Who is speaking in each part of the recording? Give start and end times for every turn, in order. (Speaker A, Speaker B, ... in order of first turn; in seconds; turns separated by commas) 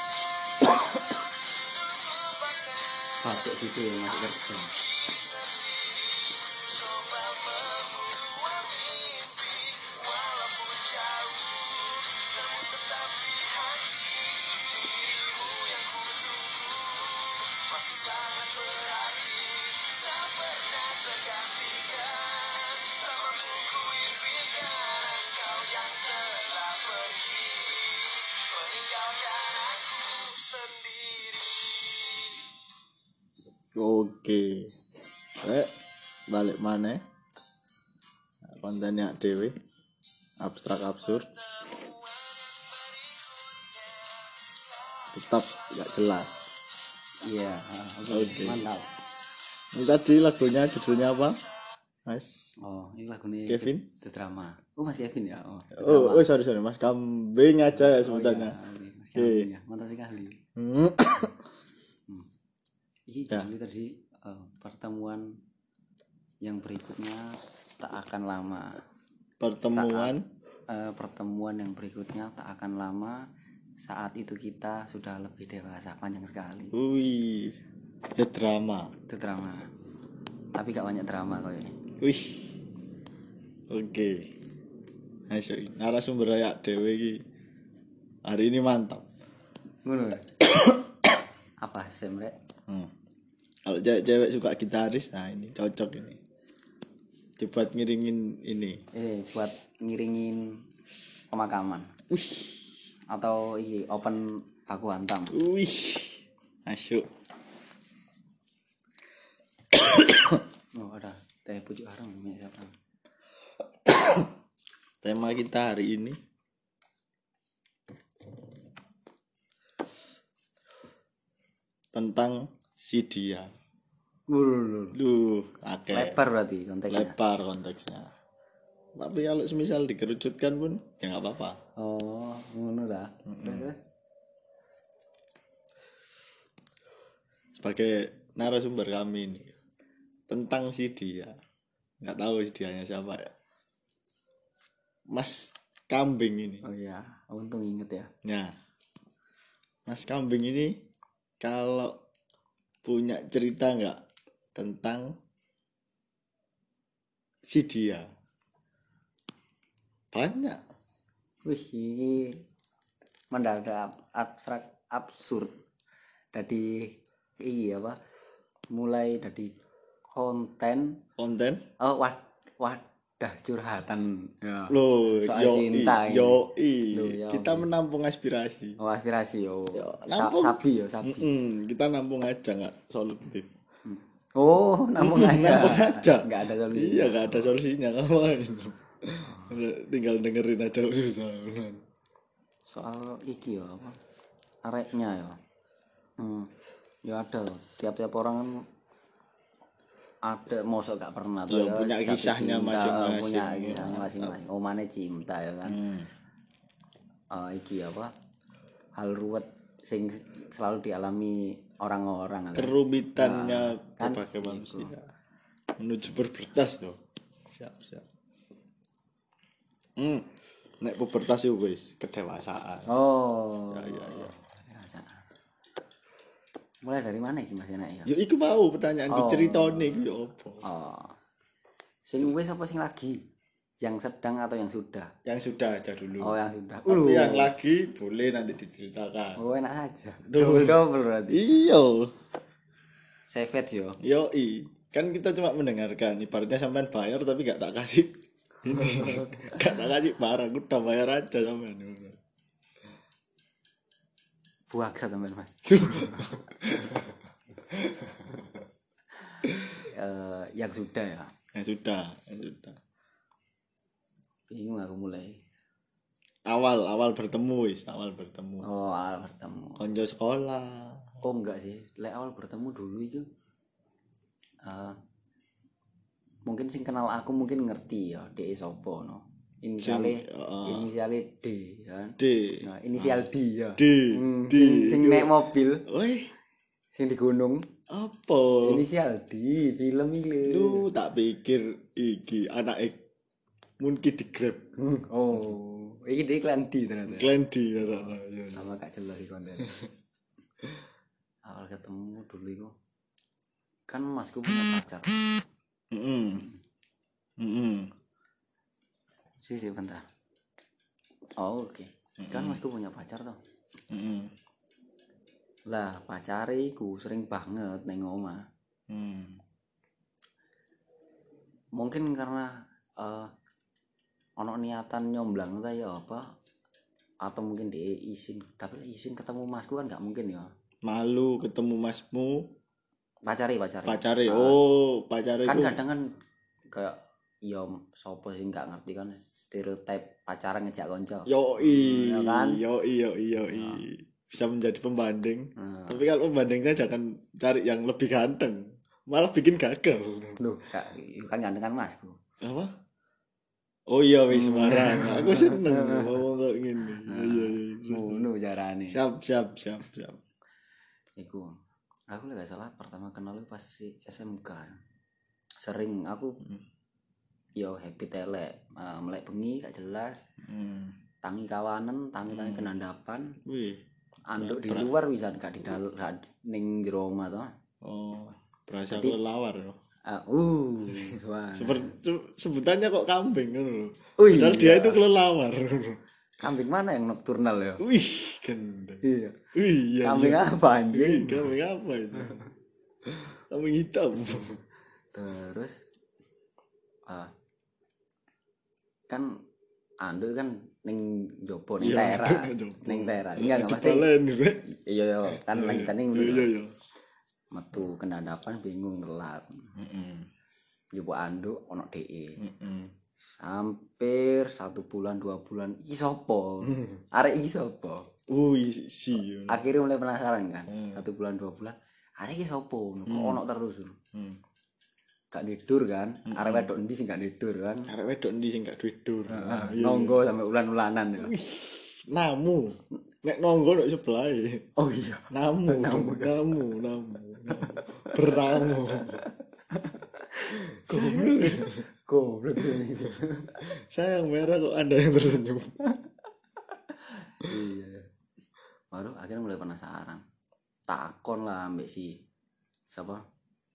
Speaker A: 0.6-3.4, Speaker B: 3.2-4.7, Speaker A: 4.3-32.3, Speaker C: 33.8-34.7, Speaker C: 35.4-35.7, Speaker C: 36.3-37.0, Speaker C: 38.5-39.5, Speaker C: 40.4-41.3, Speaker A: 41.6-45.1, Speaker C: 45.1-46.3, Speaker B: 47.2-48.9, Speaker C: 48.1-48.7, Speaker C: 49.7-51.4, Speaker C: 52.1-52.4, Speaker B: 52.6-56.3, Speaker C: 53.5-53.9, Speaker C: 55.8-58.6, Speaker B: 57.8-60.4, Speaker C: 59.2-59.5, Speaker C: 60.6-61.4, Speaker B: 63.1-65.3, Speaker B: 66.4-68.8, Speaker C: 69.4-70.2, Speaker B: 69.7-70.1, Speaker B: 70.7-73.2, Speaker B: 73.8-76.7, Speaker C: 76.7-77.6, Speaker C: 78.2-78.9, Speaker B: 79.1-79.7, Speaker B: 80.5-81.7, Speaker C: 82.0-82.5, Speaker C: 83.7-84.3, Speaker C: 85.3-87.2, Speaker C: 88.3-89.1, Speaker B: 89.8-90.3, Speaker B: 91.6-92.3, Speaker C: 93.7-96.2, Speaker C: 97.4-98.8, Speaker B: 98.9-100.6, Speaker B: 101.3-101.9, Speaker C: 102.1-102.7, Speaker B: 103.1-105.3, Speaker C: 105.3-107.1, Speaker C: 109.7-110.4, Speaker B: 110.8-112.7, Speaker C: 113.9-114.3, Speaker C: 115.0-116.2, Speaker C: 121.9-123.5, Speaker B: 124.3-125.0, Speaker C: 124.9-126.2, Speaker B: 125.9-127.2, Speaker C: 126.9-128.1, Speaker C: 129.0-131.6, Speaker B: 131.8-133.8, Speaker C: 133.3-133.7, Speaker C: 137.6-139.5, Speaker C: 140.3-141.4, Speaker C: 142.0-143.3, Speaker C: 145.1-146.6, Speaker B: 146.6-148.1, Speaker C: 148.2-148.6, Speaker C: 149.9-150.8, Speaker C: 151.4-152.0, Speaker C: 152.8-154.0, Speaker C: 154.6-155.2, Speaker C: 157.5-158.1, Speaker C: 160.1-160.6, Speaker B: 161.4-162.4, Speaker B: 163.3-165.6, Speaker B: 166.3-168.0, Speaker B: 168.7-169.5, Speaker B: 170.1-171.0, Speaker C: 171.2-171.6, Speaker B: 171.8-177.7, Speaker C: 174.7-178.8, Speaker B: 178.8-181.3, Speaker C: 179.7-183.5, Speaker B: 183.9-187.6, Speaker C: 185.0-191.8, Speaker B: 189.2-189.6, Speaker B: 192.7-194.0, Speaker B: 194.7-195.4, Speaker B: 196.2-196.5, Speaker B: 197.1-198.6, Speaker B: 200.2-205.8, Speaker C: 201.5-204.4, Speaker C: 205.7-206.1, Speaker B: 207.3-208.1, Speaker B: 208.9-215.0, Speaker C: 212.6-215.0, Speaker C: 215.8-218.1, Speaker C: 220.0-220.3, Speaker C: 220.8-222.9, Speaker B: 222.9-225.2, Speaker C: 223.7-224.3, Speaker B: 226.8-228.1, Speaker C: 228.1-230.6, Speaker B: 229.1-230.0, Speaker B: 230.6-231.2, Speaker B: 232.1-233.2, Speaker B: 233.8-235.1, Speaker C: 235.2-239.4, Speaker B: 236.2-237.5, Speaker B: 239.4-241.4, Speaker C: 240.3-242.2, Speaker B: 243.3-244.0, Speaker C: 244.0-248.1, Speaker C: 248.6-252.2, Speaker B: 254.7-256.4, Speaker C: 255.7-257.1, Speaker C: 257.7-258.6, Speaker C: 259.5-259.8, Speaker B: 259.9-261.3, Speaker C: 261.5-262.8, Speaker B: 264.5-265.4, Speaker C: 266.5-268.7, Speaker B: 268.6-269.8, Speaker C: 269.8-271.2, Speaker B: 271.2-273.3, Speaker B: 274.6-275.0, Speaker B: 276.4-285.9, Speaker C: 279.8-280.9, Speaker C: 282.2-286.3, Speaker B: 287.0-287.6, Speaker C: 287.9-288.9, Speaker B: 288.6-290.8, Speaker C: 290.4-293.0, Speaker C: 293.8-294.6, Speaker B: 294.8-299.8, Speaker C: 297.1-298.7, Speaker B: 301.4-302.7, Speaker B: 303.9-305.2, Speaker C: 305.9-306.5, Speaker C: 307.4-307.9, Speaker B: 309.4-310.1, Speaker B: 311.4-313.4, Speaker C: 312.2-312.6, Speaker C: 313.9-314.3, Speaker B: 315.7-318.4, Speaker C: 318.9-319.4, Speaker B: 321.8-323.3, Speaker B: 324.4-326.3, Speaker B: 327.2-330.5, Speaker C: 330.9-332.5, Speaker B: 333.3-334.6, Speaker C: 333.9-335.8, Speaker B: 335.5-336.1, Speaker B: 336.7-342.6, Speaker C: 341.3-350.4, Speaker B: 345.6-346.1, Speaker B: 350.4-352.2, Speaker C: 352.4-352.7, Speaker C: 353.9-358.3, Speaker B: 354.3-356.2, Speaker B: 356.8-359.0, Speaker C: 358.9-360.2, Speaker B: 361.2-361.5, Speaker B: 362.1-364.8, Speaker B: 365.6-366.4, Speaker B: 367.6-370.2, Speaker C: 370.4-371.0, Speaker B: 371.2-373.4, Speaker C: 372.3-372.7, Speaker C: 373.4-373.8, Speaker B: 374.3-377.5, Speaker C: 374.4-374.9, Speaker C: 377.8-379.8, Speaker B: 378.9-379.2, Speaker B: 380.1-381.9, Speaker C: 381.0-386.0, Speaker B: 384.2-385.0, Speaker B: 386.4-387.8, Speaker C: 387.8-389.0, Speaker B: 389.0-389.5, Speaker C: 389.5-392.4, Speaker B: 390.0-391.5, Speaker C: 393.1-394.6, Speaker B: 395.1-395.8, Speaker B: 397.1-397.3, Speaker B: 399.1-399.4, Speaker B: 400.0-404.1, Speaker C: 401.8-404.6, Speaker B: 404.7-406.5, Speaker C: 405.3-406.7, Speaker B: 407.5-409.7, Speaker C: 409.8-410.3, Speaker B: 410.9-412.4, Speaker C: 412.4-412.9, Speaker B: 413.4-418.1, Speaker C: 416.7-417.0, Speaker C: 418.3-419.6, Speaker B: 419.5-424.0, Speaker C: 420.7-421.0, Speaker C: 423.1-423.4, Speaker C: 424.1-424.4, Speaker B: 425.3-427.9, Speaker C: 426.3-426.7, Speaker C: 427.9-430.3, Speaker B: 429.3-431.3, Speaker C: 431.2-434.7, Speaker B: 434.8-436.6, Speaker C: 435.3-439.2, Speaker B: 437.5-443.6, Speaker C: 440.8-441.8, Speaker C: 443.7-445.8, Speaker B: 447.3-448.1, Speaker B: 448.9-450.2, Speaker B: 450.9-452.2, Speaker B: 452.9-453.2